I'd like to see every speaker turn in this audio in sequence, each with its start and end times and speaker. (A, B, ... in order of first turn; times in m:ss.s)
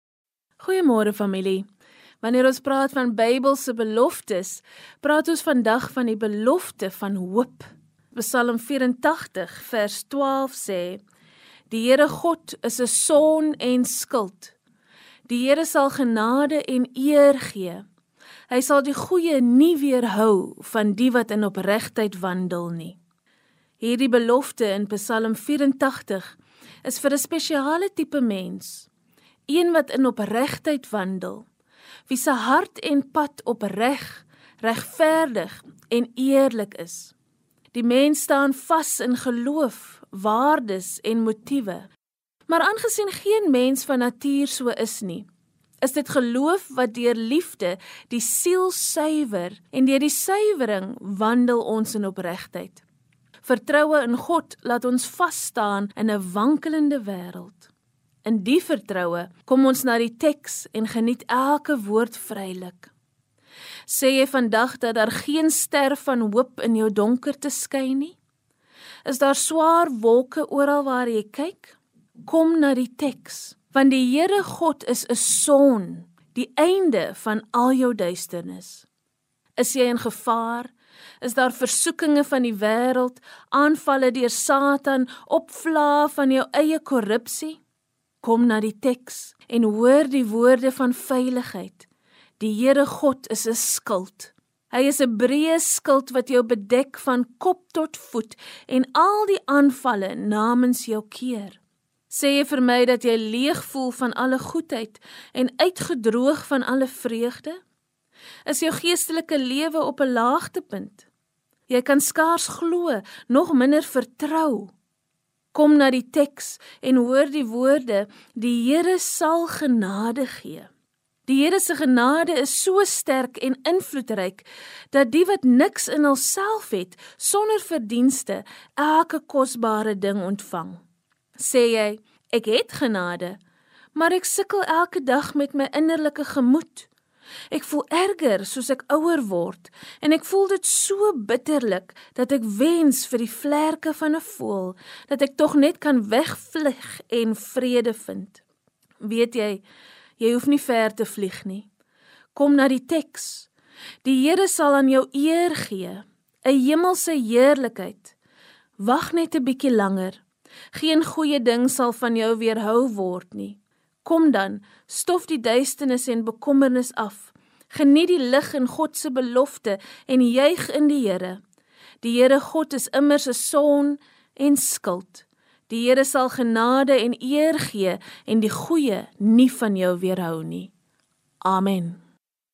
0:00.6-0:01.7 A
0:02.2-0:11.0 A
0:11.7-0:14.5 A
0:15.3-0:17.8 A
0:18.5-0:23.0 A
0:23.8-0:28.9 A
0:29.5-0:31.4 A
0:32.1-0:37.1 A
0:37.7-0:41.9 A
0:42.5-0:45.3 A
0:45.8-0:52.8 A
0:53.4-0:57.7 A
0:58.2-1:02.9 A
1:03.9-1:08.2 A
1:09.0-1:18.8 A
1:19.6-1:27.6 A
1:28.2-1:31.9 A
1:32.4-1:41.6 A
1:42.1-1:47.6 A
1:48.4-1:51.0 A
1:51.7-1:54.7 A
1:55.5-2:00.7 A
2:01.3-2:10.8 A
2:11.4-2:13.4 A
2:13.9-2:16.9 A
2:17.5-2:28.4 A
2:29.0-2:29.6 A
2:30.2-2:31.7 A
2:32.3-2:33.5 A
2:34.0-2:38.1 A
2:38.8-2:40.2 A
2:40.7-2:51.4 A
2:52.0-3:00.7 A
3:01.4-3:02.0 A